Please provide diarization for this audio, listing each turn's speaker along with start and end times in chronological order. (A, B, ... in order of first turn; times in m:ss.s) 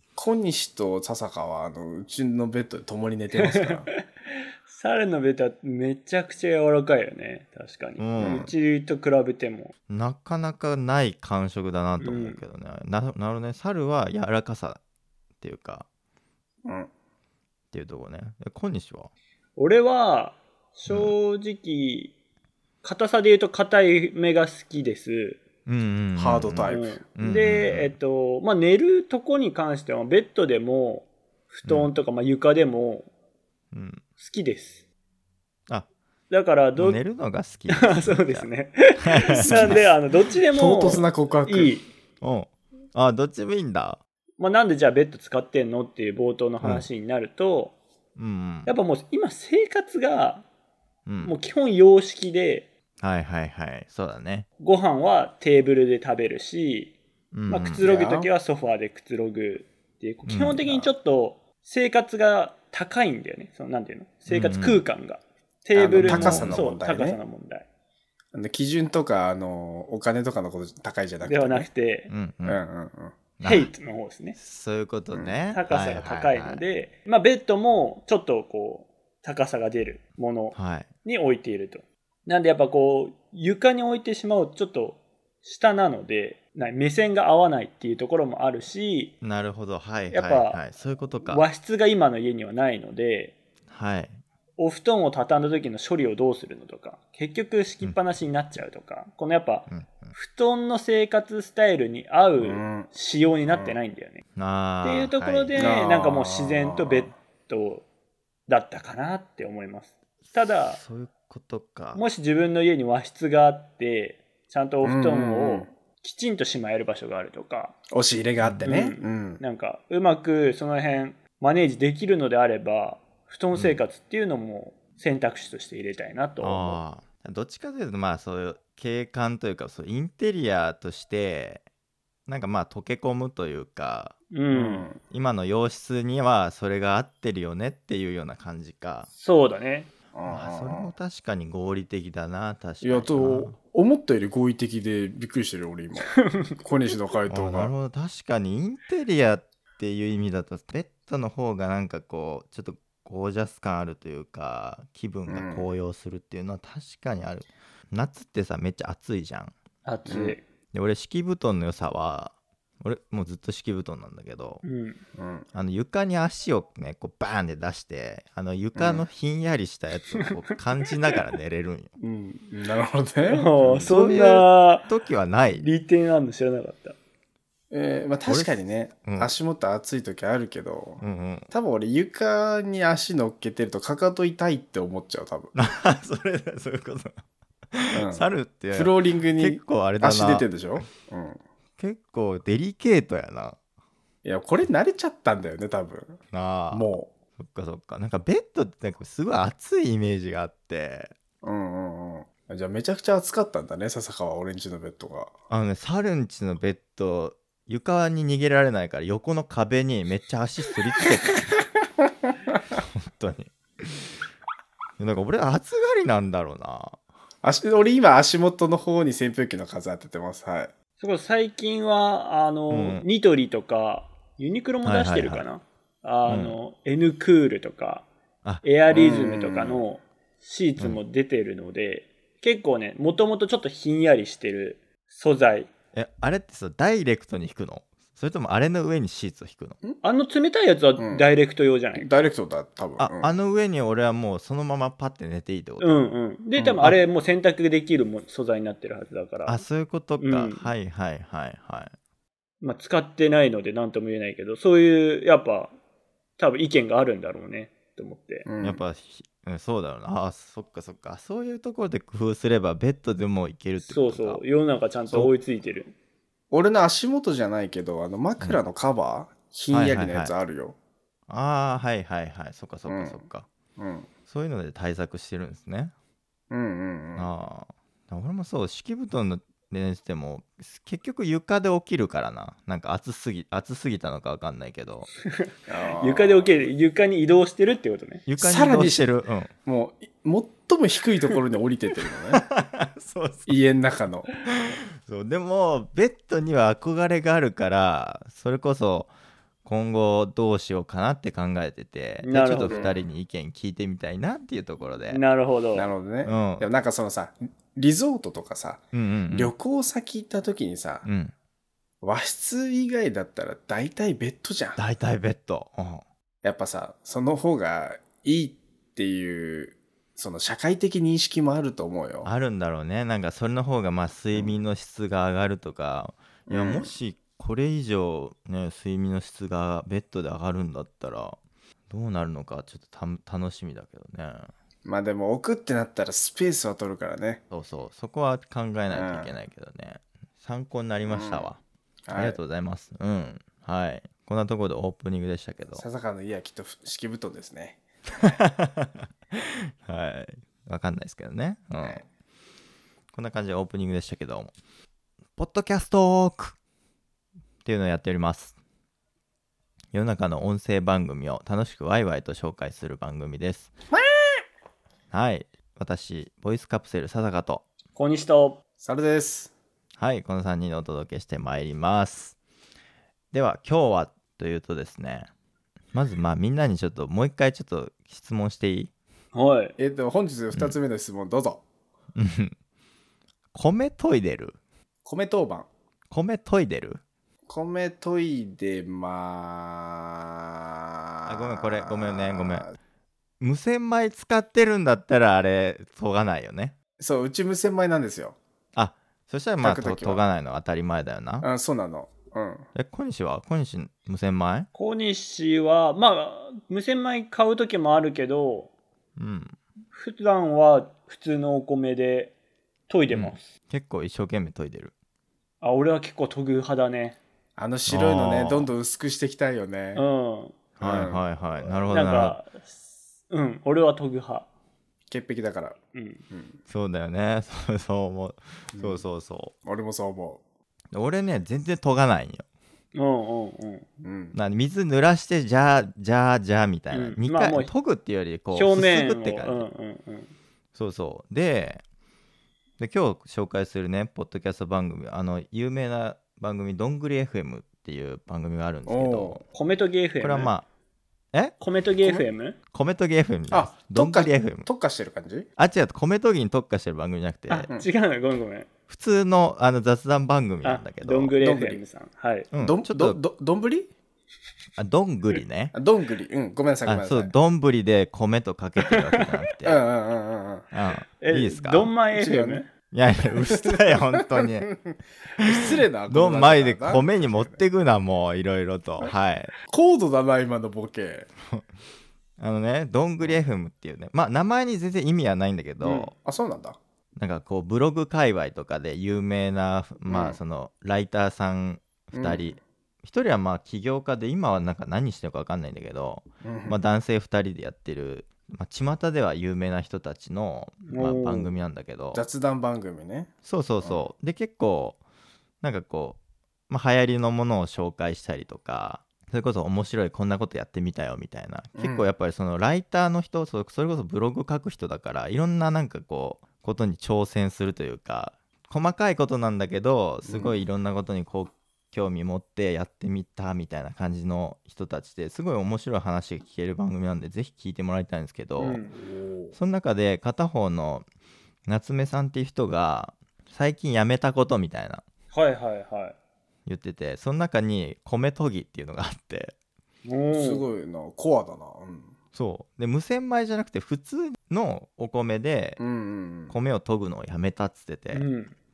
0:00.2-0:03.9 A
0:03.3-0:04.0 B
0:04.7-0:09.7 B
0:08.0-0:08.5 C
0:08.2-0:08.6 A
0:09.9-0:14.8 C
0:12.0-0:12.4 B
0:15.4-0:15.9 C
0:16.6-0:16.9 A
0:17.7-0:19.1 C
0:19.6-0:22.1 B
0:20.9-0:21.1 C
0:22.8-0:25.4 B
0:25.7-0:28.0 C
0:26.2-0:27.0 A
0:26.7-0:33.1 B
0:31.7-0:32.0 C
0:33.7-0:34.0 C
0:34.2-0:34.8 B
0:36.3-0:37.0 B
0:36.8-0:38.5 C
0:37.8-0:41.9 B
0:39.0-0:39.8 C
0:39.3-0:39.9 A
0:40.5-0:41.8 A
0:42.2-0:44.0 C
0:44.4-0:47.8 B
0:46.6-0:46.9 C
0:48.2-0:48.7 C
0:48.7-0:50.5 B
0:51.1-0:51.4 C
0:51.2-0:52.7 B
0:53.0-0:54.5 C
0:54.6-0:57.0 B
0:57.3-0:57.9 C
0:57.5-1:07.7 B
0:57.8-0:58.3 A
1:00.3-1:00.9 C
1:04.3-1:04.8 C
1:05.8-1:07.2 A
1:06.0-1:06.7 C
1:08.3-1:11.7 A
1:11.2-1:12.1 B
1:12.1-1:12.6 C
1:12.4-1:13.2 A
1:13.4-1:13.7 C
1:13.4-1:14.4 B
1:14.4-1:16.6 C
1:15.5-1:29.1 B
1:20.6-1:20.9 C
1:29.2-1:31.5 C
1:30.1-1:30.6 B
1:31.2-1:33.3 B
1:33.7-1:34.2 C
1:34.6-1:44.2 B
1:39.7-1:40.2 C
1:42.4-1:42.9 A
1:43.5-1:43.8 A
1:44.4-1:45.7 C
1:44.8-1:47.8 B
1:45.6-1:47.2 A
1:48.5-1:50.8 B
1:50.7-1:52.0 C
1:52.0-1:57.8 B
1:54.8-1:55.7 A
1:57.9-1:59.4 A
1:58.6-2:06.8 B
2:03.5-2:03.8 C
2:06.4-2:11.6 C
2:12.3-2:14.2 C
2:14.3-2:14.9 B
2:14.5-2:15.0 A
2:15.1-2:19.1 C
2:19.2-2:19.9 B
2:20.1-2:20.9 A
2:20.3-2:23.6 C
2:22.8-2:27.7 A
2:26.2-2:26.5 B
2:27.3-2:39.5 C
2:35.3-2:35.7 A
2:39.8-2:40.4 B
2:40.1-2:40.4 A
2:40.7-2:44.6 C
2:44.6-2:45.0 B
2:45.2-2:45.5 A
2:45.5-2:51.9 C
2:48.8-2:49.1 A
2:52.0-2:54.0 A
2:53.2-2:54.9 B
2:53.8-2:55.7 C
2:55.6-2:57.0 B
2:57.7-3:05.5 A
2:58.3-2:59.3 C
3:01.0-3:01.5 C
3:05.5-3:07.2 C
3:07.7-3:10.9 C
3:07.9-3:11.4 A
3:11.8-3:13.6 C
3:14.2-3:16.2 A
3:16.3-3:21.1 C
3:16.7-3:17.1 A
3:21.4-3:25.3 A
3:25.5-3:31.6 C
3:31.8-3:32.5 A
3:32.8-3:34.0 C
3:35.0-3:37.0 C
3:37.4-3:40.7 A
3:41.0-3:48.1 B
3:42.7-3:43.1 C
3:44.8-3:45.4 C
3:46.3-3:46.6 C
3:48.6-3:55.7 B
3:48.9-3:49.8 A
3:55.9-3:59.8 C
4:00.0-4:02.1 B
4:01.0-4:01.3 A
4:02.0-4:03.3 A
4:03.0-4:06.1 C
4:05.8-4:09.6 B
4:06.5-4:06.8 A
4:09.5-4:11.9 C
4:10.2-4:10.7 B
4:12.6-4:15.8 B
4:16.4-4:18.4 B
4:18.4-4:18.8 A
4:18.6-4:24.4 C
4:23.8-4:25.9 B
4:26.5-4:30.8 A
4:29.7-4:30.3 C
4:31.3-4:33.5 C
4:32.9-4:33.2 A
4:33.8-4:34.1 A
4:34.3-4:35.9 C
4:36.5-4:37.3 A
4:37.2-4:45.1 C
4:45.3-4:48.2 B
4:45.7-4:46.7 A
4:48.3-4:49.5 C
4:48.4-4:49.1 A
4:49.6-4:52.4 A
4:52.4-4:53.6 C
4:53.5-4:54.3 A
4:54.5-4:59.1 C
4:59.6-5:05.2 C
5:02.2-5:02.9 B
5:02.6-5:03.1 A
5:05.1-5:05.9 B
5:05.7-5:11.1 A
5:06.2-5:06.7 C
5:08.9-5:09.5 C
5:11.0-5:11.3 C
5:12.0-5:14.8 A
5:14.8-5:16.0 C
5:16.4-5:22.3 A
5:22.2-5:31.4 C
5:26.5-5:26.9 A
5:31.9-5:34.5 C
5:34.8-5:37.4 A
5:37.5-5:41.6 C
5:38.9-5:39.3 A
5:41.1-5:41.5 A
5:42.1-5:42.4 A
5:42.1-5:45.8 C
5:45.7-5:47.8 A
5:48.2-5:52.0 C
5:53.1-5:54.6 C
5:55.4-5:56.6 C
5:57.6-5:58.6 C
5:59.9-6:03.7 C
6:03.9-6:04.4 A
6:05.1-6:07.6 C
6:08.0-6:08.6 B
6:08.8-6:09.5 A
6:10.0-6:12.4 C
6:13.3-6:15.3 C
6:15.9-6:18.9 C
6:19.3-6:19.7 B
6:19.8-6:21.6 A
6:22.2-6:22.5 C
6:23.5-6:24.6 C
6:25.0-6:25.7 A
6:26.1-6:27.0 C
6:27.5-6:32.8 A
6:31.3-6:32.8 C
6:33.4-6:36.8 C
6:37.0-6:38.4 A
6:38.7-6:41.5 C
6:39.6-6:40.2 A
6:41.4-6:42.7 A
6:42.8-6:44.7 C
6:44.7-6:48.7 B
6:49.2-6:49.6 C
6:49.9-6:52.4 B
6:52.9-6:53.5 B
6:53.1-6:54.9 C
6:55.6-6:57.2 B
6:57.6-7:00.1 A
6:57.9-6:58.7 C
7:00.0-7:00.6 B
7:00.8-7:02.4 C
7:00.8-7:01.2 A
7:01.9-7:04.5 B
7:05.1-7:05.8 A
7:05.9-7:06.2 B
7:06.3-7:06.6 A
7:06.7-7:09.5 C
7:08.7-7:09.0 A
7:09.6-7:10.4 A
7:10.9-7:12.4 C
7:13.0-7:13.9 B
7:14.0-7:14.4 A
7:14.4-7:19.7 C
7:16.9-7:17.7 B
7:18.5-7:20.3 B
7:20.8-7:21.8 C
7:22.8-7:29.4 C
7:28.9-7:29.4 A
7:29.5-7:30.5 B
7:30.2-7:30.7 C
7:31.6-7:32.6 B
7:32.0-7:32.3 A
7:32.7-7:34.7 C
7:33.5-7:35.5 A
7:35.6-7:37.7 C
7:37.5-7:38.7 B
7:38.9-7:41.4 C
7:40.6-7:42.5 B
7:41.4-7:41.8 A
7:42.5-7:43.2 C
7:42.6-7:43.9 A
7:44.8-7:45.7 C
7:45.7-7:47.3 A
7:46.9-7:49.8 C
7:48.9-7:49.3 B
7:49.6-7:50.7 A
7:50.7-7:52.0 C
7:51.2-7:52.7 B
7:52.1-7:52.7 A
7:52.9-7:54.7 C
7:53.6-7:57.6 A
7:56.1-7:59.5 C
7:59.0-8:01.3 A
8:02.4-8:06.1 C
8:05.8-8:06.1 B
8:06.1-8:06.8 A
8:07.2-8:22.2 C
8:10.1-8:10.4 A
8:12.1-8:12.6 A
8:16.4-8:16.8 A
8:20.9-8:21.5 B
8:22.1-8:23.3 A
8:23.4-8:25.0 C
8:23.8-8:24.1 A
8:25.6-8:26.2 C
8:26.7-8:48.8 C
8:31.8-8:32.1 A
8:40.2-8:40.6 A
8:48.6-8:49.0 B
8:49.1-8:49.5 A
8:49.6-8:51.1 C
8:51.7-8:55.0 C
8:55.3-8:56.2 B
8:56.7-8:59.5 C
9:00.1-9:00.7 B
9:00.3-9:02.2 A
9:02.3-9:05.8 C
9:05.8-9:06.6 A
9:06.5-9:08.2 C
9:08.1-9:08.5 B